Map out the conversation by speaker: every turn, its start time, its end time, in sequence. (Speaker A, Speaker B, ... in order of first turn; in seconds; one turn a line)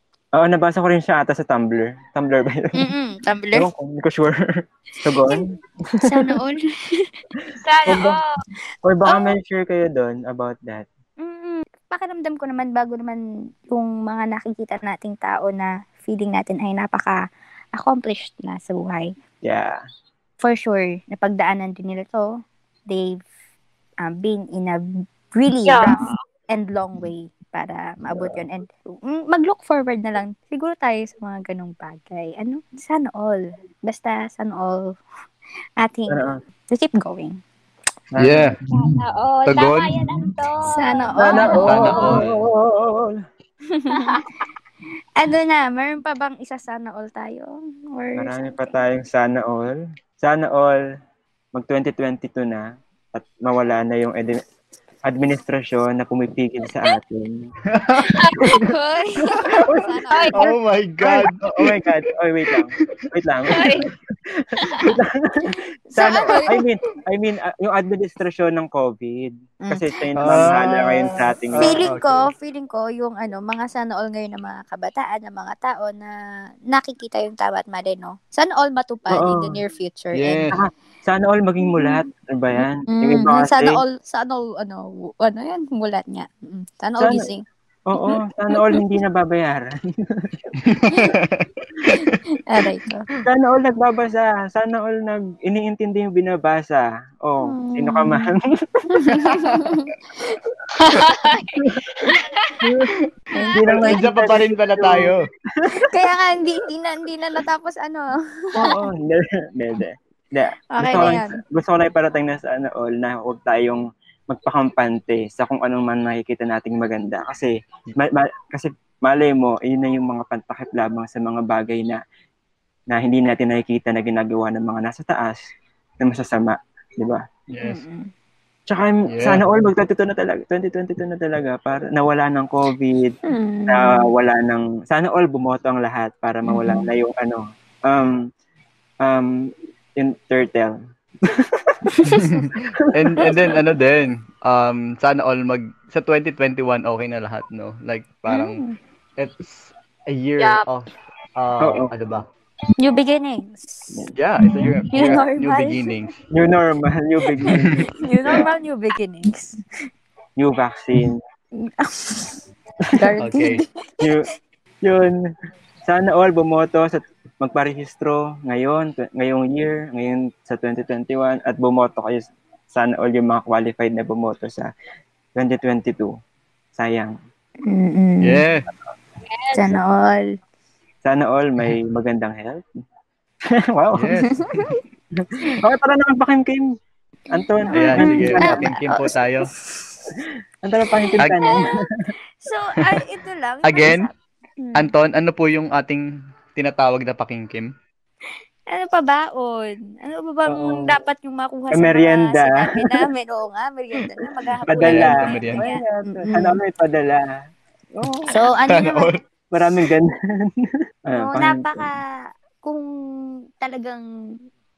Speaker A: 0.4-2.9
Speaker B: 2.8-3.7
Speaker A: 3.5-4.4
Speaker A: 5.0-6.1
Speaker B: 6.0-7.1
Speaker A: 7.4-8.2
Speaker C: 7.6-8.3
Speaker A: 8.8-10.9
Speaker B: 11.2-17.1
Speaker B: 17.8-19.1
Speaker A: 19.4-19.8
Speaker B: 20.4-22.2
Speaker B: 22.9-23.2
Speaker B: 24.0-35.0
Speaker C: 25.6-26.2
Speaker A: 28.1-28.4
Speaker B: 35.8-36.2
Speaker A: 36.1-36.4
Speaker B: 36.7-37.4
Speaker A: 38.1-38.7
Speaker D: 38.2-38.5
Speaker C: 38.7-42.2
Speaker D: 39.5-40.3
Speaker B: 40.7-42.1
Speaker A: 41.2-43.2
Speaker D: 41.6-42.4
Speaker B: 43.7-44.1
Speaker C: 43.9-44.2
Speaker B: 45.2-48.8
Speaker A: 48.1-50.8
Speaker A: 51.5-54.4
Speaker A: 55.0-57.5
Speaker D: 57.7-58.4
Speaker B: 58.4-60.4
Speaker A: 58.4-58.7
Speaker A: 59.2-60.2
Speaker C: 60.1-60.5
Speaker D: 60.3-62.1
Speaker A: 61.0-71.8
Speaker C: 63.5-63.9
Speaker C: 64.6-64.9
Speaker B: 65.9-66.6
Speaker B: 69.6-70.9
Speaker D: 70.2-72.3
Speaker B: 71.6-76.1
Speaker B: 76.7-80.5
Speaker A: 79.1-79.6
Speaker D: 80.1-80.6
Speaker A: 80.5-83.8
Speaker B: 82.9-87.4
Speaker A: 87.0-87.3
Speaker A: 87.9-90.5
Speaker B: 88.0-88.8
Speaker D: 90.6-92.2
Speaker B: 91.9-93.1
Speaker A: 93.2-99.3
Speaker B: 97.4-98.3
Speaker B: 98.9-100.4
Speaker D: 99.3-99.7
Speaker C: 100.8-102.7
Speaker A: 101.6-102.1
Speaker A: 102.6-103.0
Speaker B: 103.3-104.3
Speaker A: 103.5-106.1
Speaker D: 103.7-105.2
Speaker B: 105.7-108.9
Speaker A: 108.5-122.0
Speaker B: 110.7-111.4
Speaker A: 122.9-125.4
Speaker A: 126.0-127.2
Speaker D: 127.5-127.8
Speaker B: 127.6-128.1
Speaker A: 128.7-133.2
Speaker D: 129.1-129.4
Speaker B: 133.2-134.1
Speaker A: 133.7-138.2
Speaker B: 136.5-136.9
Speaker A: 139.0-141.8
Speaker B: 141.8-142.4
Speaker D: 142.0-148.6
Speaker A: 142.7-143.5
Speaker B: 148.3-148.8
Speaker D: 149.2-152.3
Speaker C: 150.4-150.7
Speaker A: 151.6-151.9
Speaker B: 152.8-155.8
Speaker D: 154.1-156.2
Speaker A: 156.3-158.5
Speaker B: 157.4-159.6
Speaker D: 157.5-157.8
Speaker A: 160.4-161.2
Speaker B: 161.6-162.4
Speaker B: 162.9-164.1
Speaker D: 163.2-163.6
Speaker A: 164.0-164.3
Speaker A: 164.8-165.1
Speaker A: 165.9-174.7
Speaker A: 175.4-176.1
Speaker A: 176.8-177.2
Speaker B: 177.7-178.4
Speaker D: 178.2-178.7
Speaker C: 179.3-179.6
Speaker B: 179.5-180.2
Speaker A: 181.0-182.7
Speaker A: 183.7-184.2
Speaker D: 183.9-184.8
Speaker B: 184.3-184.8
Speaker A: 185.2-186.7
Speaker A: 187.3-188.7
Speaker B: 187.7-190.1
Speaker D: 187.7-189.5
Speaker A: 190.6-191.9
Speaker B: 190.9-191.8
Speaker D: 191.2-191.6
Speaker B: 192.4-194.9
Speaker D: 193.6-194.1
Speaker D: 194.7-197.7
Speaker B: 198.7-206.6
Speaker A: 200.5-200.9
Speaker A: 201.7-202.9
Speaker A: 204.6-207.3
Speaker D: 204.7-205.6
Speaker A: 207.9-208.4
Speaker B: 208.3-209.1
Speaker D: 208.7-209.8
Speaker A: 209.5-210.5
Speaker A: 211.1-211.8
Speaker B: 211.1-212.0
Speaker B: 212.6-212.9
Speaker B: 213.6-214.0